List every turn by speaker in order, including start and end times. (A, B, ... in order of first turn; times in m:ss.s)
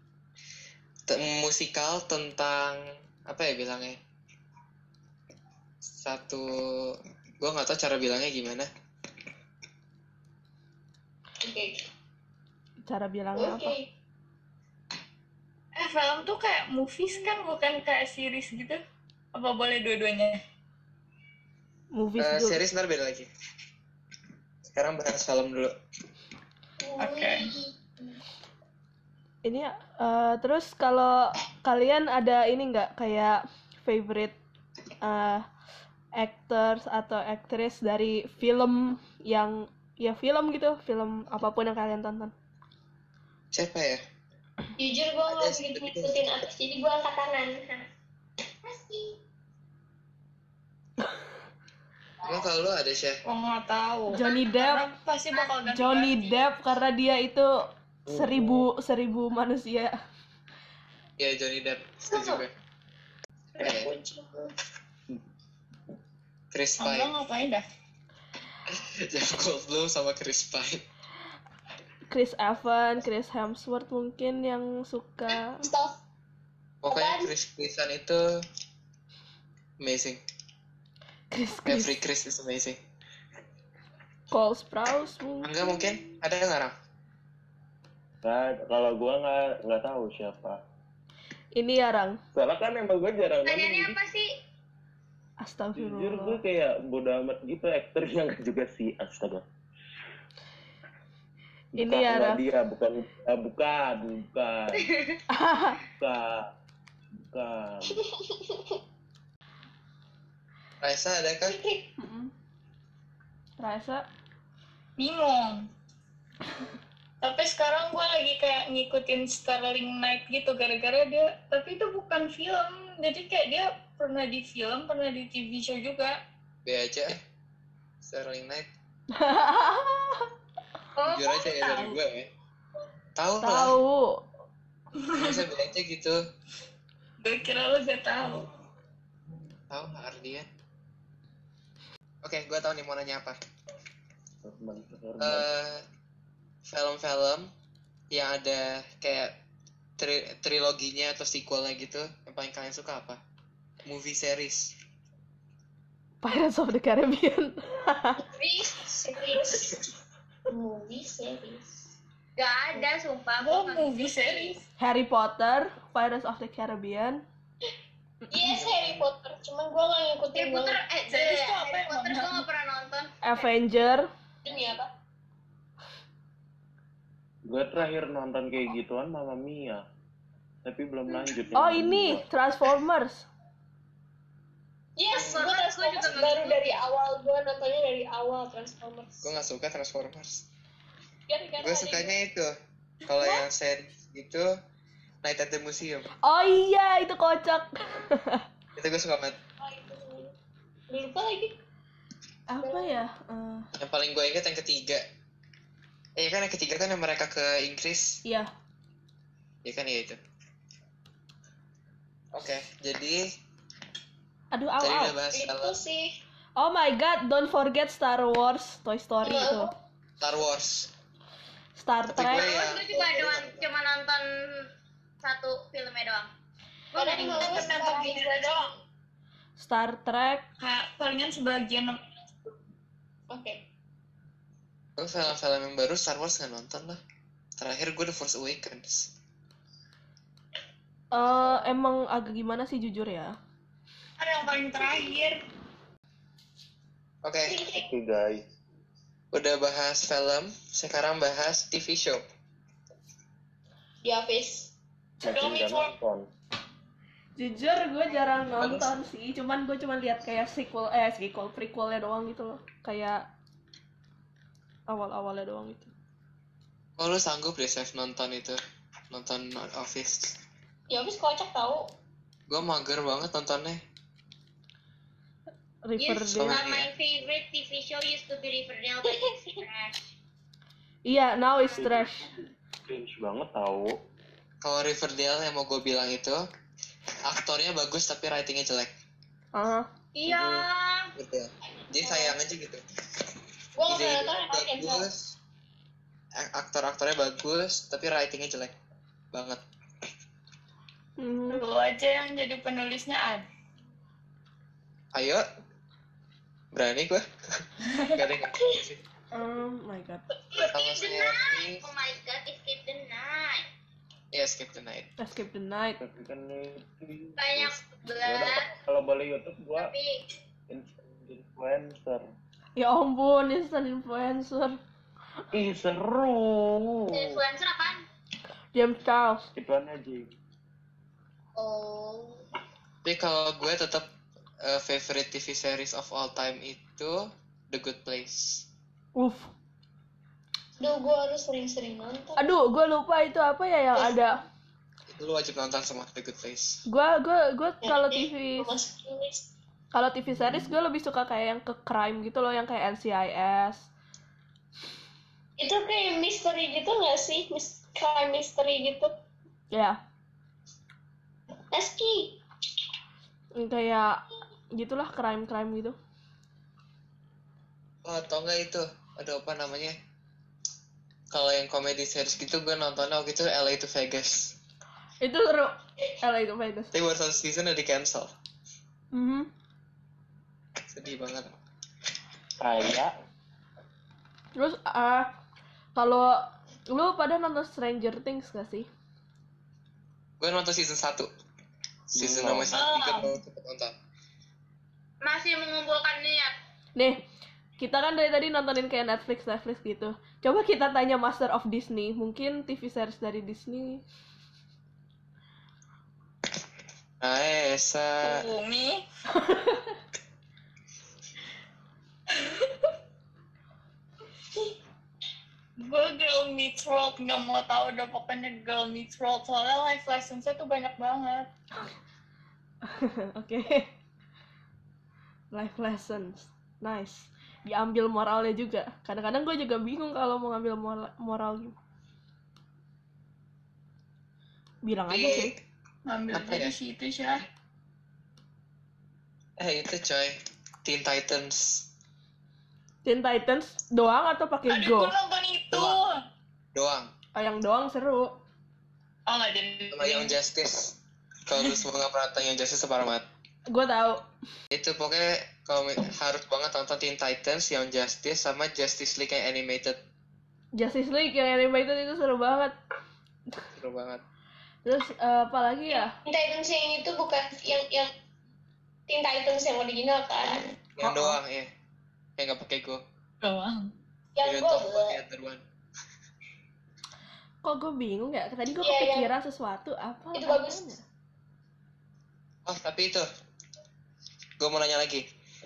0:01.1-0:04.0 A
0:05.8-0:08.7 A
0:11.4-0:11.9 B
0:12.9-0:13.8 C
0:13.4-0:13.9 B
0:15.8-0:18.8 D
0:19.3-0:20.4 D
0:21.9-0:22.6 C
0:22.2-0:23.3 A
0:24.6-0:25.7 A
0:26.8-0:28.1 B
0:27.0-0:27.5 D
0:29.4-0:34.4 C
0:35.0-0:35.4 C
0:36.2-0:42.3 C
0:43.5-0:44.0 A
0:44.8-0:47.8 B
0:45.3-0:46.2 A
0:48.7-0:49.2 E
0:52.2-0:53.2 A
0:53.2-0:56.4 D
0:54.1-0:54.9 C
0:55.7-0:57.5 C
0:58.1-0:58.7 F
0:58.1-1:00.0 C
1:01.2-1:02.5 A
1:02.1-1:02.4 B
1:03.6-1:04.5 B
1:03.6-1:03.9 A
1:06.5-1:07.1 A
1:06.8-1:07.6 D
1:08.7-1:10.8 A
1:12.1-1:15.7 C
1:15.4-1:16.0 B
1:16.8-1:18.2 A
1:16.9-1:17.3 B
1:19.8-1:20.2 A
1:21.3-1:21.9 C
1:21.7-1:22.8 A
1:24.3-1:25.6 C
1:25.4-1:26.7 A
1:28.2-1:30.6 F
1:31.6-1:32.2 C
1:32.3-1:34.0 F
1:33.4-1:34.3 E
1:35.4-1:36.4 C
1:35.8-1:39.4 F
1:41.8-1:45.1 F
1:41.8-1:42.4 C
1:45.3-1:45.8 C
1:46.0-1:46.5 F
1:47.3-1:48.0 F
1:48.1-1:48.8 B
1:50.8-1:51.6 A
1:51.4-1:51.9 B
1:52.0-1:52.3 C
1:53.6-1:54.0 C
1:55.0-1:55.7 D
1:57.2-2:06.2 D
2:06.6-2:07.2 A
2:08.0-2:08.7 A
2:09.1-2:10.3 C
2:11.0-2:11.8 E
2:11.0-2:12.3 A
2:13.2-2:13.8 A
2:13.4-2:14.2 C
2:15.0-2:15.4 D
2:15.1-2:16.2 A
2:17.2-2:18.5 D
2:19.7-2:20.5 A
2:22.2-2:23.4 A
2:24.4-2:25.5 F
2:25.2-2:25.8 A
2:26.6-2:27.5 A
2:28.1-2:29.4 A
2:30.0-2:33.2 A
2:33.8-2:34.8 A
2:36.2-2:38.2 C
2:38.4-2:39.9 B
2:38.4-2:38.8 E
2:40.5-2:41.9 B
2:42.4-2:44.6 E
2:43.4-2:44.7 D
2:44.8-2:47.2 C
2:48.3-2:50.8 B
2:50.3-2:53.2 E
2:51.1-2:52.4 D
2:53.2-2:54.1 C
2:54.4-2:54.9 B
2:57.5-2:59.8 F
3:00.6-3:02.3 F
3:01.1-3:01.6 B
3:01.6-3:03.3 C
3:05.0-3:09.3 B
3:05.1-3:06.8 E
3:05.2-3:05.4 A
3:09.2-3:10.5 A
3:11.3-3:12.2 B
3:11.6-3:14.5 A
3:15.2-3:16.1 A
3:16.2-3:18.4 C
3:18.8-3:19.4 A
3:19.6-3:20.3 B
3:20.9-3:21.6 B
3:22.5-3:23.7 C
3:22.6-3:23.0 B
3:23.7-3:25.0 A
3:26.2-3:28.2 A
3:28.2-3:28.5 C
3:29.6-3:30.2 A
3:32.3-3:33.3 A
3:34.5-3:35.2 C
3:34.8-3:35.8 A
3:35.3-3:36.2 B
3:36.6-3:39.7 C
3:39.2-3:39.8 B
3:40.2-3:40.9 A
3:41.8-3:42.5 C
3:42.1-3:43.7 A
3:42.3-3:44.7 E
3:45.2-3:46.3 E
3:46.9-3:47.7 E
3:47.0-3:48.7 B
3:47.1-3:48.7 D
3:49.6-3:50.5 C
3:50.6-3:52.3 D
3:53.3-3:53.6 B
3:55.0-3:57.0 A
3:57.6-3:59.1 A
4:01.1-4:03.4 C
4:04.2-4:05.4 D
4:07.2-4:07.6 A
4:07.5-4:07.8 B
4:07.7-4:08.5 F
4:09.3-4:12.2 A
4:14.0-4:14.7 B
4:15.2-4:16.3 F
4:15.2-4:15.9 D
4:17.4-4:23.3 C
4:18.6-4:18.9 A
4:24.9-4:25.9 C
4:27.0-4:28.6 A
4:29.1-4:30.4 A
4:30.9-4:31.9 B
4:32.5-4:33.8 A
4:35.8-4:36.6 C
4:36.0-4:40.1 E
4:36.4-4:36.9 A
4:39.2-4:39.5 B
4:41.1-4:42.3 C
4:41.8-4:42.4 F
4:42.9-4:44.0 F
4:44.6-4:46.4 A
4:47.3-4:48.9 A
4:49.6-4:49.9 C
4:50.2-4:51.1 E
4:50.3-4:50.7 F
4:51.2-4:52.8 A
4:52.0-4:52.4 B
4:53.8-4:55.1 B
4:53.9-4:55.4 A
4:56.4-4:58.7 A
4:59.3-4:59.6 A
5:01.2-5:01.6 C
5:01.5-5:03.4 D
5:05.1-5:05.4 A
5:06.7-5:09.0 A
5:07.9-5:08.2 D
5:09.3-5:10.2 C
5:10.5-5:13.7 E
5:10.7-5:11.8 A
5:14.3-5:15.1 A
5:15.2-5:16.0 C
5:16.0-5:19.9 F
5:17.4-5:18.7 E
5:19.8-5:20.3 E
5:20.7-5:22.3 F
5:22.8-5:24.8 C
5:25.5-5:27.4 F
5:27.1-5:28.0 E
5:28.7-5:29.4 C
5:29.6-5:30.3 F
5:31.6-5:32.4 E
5:33.0-5:34.1 A
5:34.6-5:38.7 A
5:39.2-5:39.5 C
5:40.8-5:42.4 B
5:42.4-5:44.4 C
5:44.0-5:44.3 B
5:45.1-5:46.8 A
5:46.9-5:48.7 C
5:47.8-5:49.5 B
5:49.9-5:53.9 C
5:55.6-5:59.1 B
5:59.7-6:00.0 C
6:01.7-6:02.4 B
6:03.6-6:04.2 C
6:04.7-6:06.0 C
6:08.0-6:10.0 A
6:11.3-6:14.6 A
6:15.2-6:16.9 C
6:16.9-6:18.3 A
6:19.1-6:19.5 C
6:20.9-6:21.5 A
6:22.6-6:23.1 F
6:24.6-6:25.4 C
6:26.0-6:28.9 C
6:30.4-6:31.3 A
6:32.1-6:33.9 A
6:32.2-6:32.7 F
6:32.7-6:33.3 D
6:35.2-6:36.5 E
6:37.8-6:44.0 C
6:47.2-6:48.5 A
6:48.2-6:49.0 D
6:49.3-6:50.0 C
6:52.3-6:52.7 D
6:55.8-7:01.5 D
7:02.8-7:03.9 C
7:05.5-7:11.8 C
7:14.8-7:15.6 C
7:15.1-7:15.6 A
7:16.1-7:17.4 D
7:16.3-7:16.8 A
7:19.6-7:21.9 A
7:23.0-7:25.1 C
7:24.7-7:26.2 D
7:25.7-7:26.0 A
7:26.7-7:27.1 A
7:27.4-7:28.4 C
7:29.3-7:30.3 D
7:29.9-7:33.3 A
7:33.7-7:34.3 C
7:34.7-7:40.0 A
7:40.8-7:42.7 C
7:43.8-7:44.2 A
7:44.8-7:46.1 C
7:45.9-7:48.1 B
7:49.1-7:50.7 B
7:51.0-7:51.7 A
7:52.4-7:53.0 A
7:53.4-7:53.9 D
7:54.4-7:55.2 B
7:54.4-7:55.6 A
7:57.6-8:01.0 C
7:58.8-7:59.3 B
8:00.3-8:00.9 B
8:02.6-8:03.3 A
8:04.6-8:05.3 A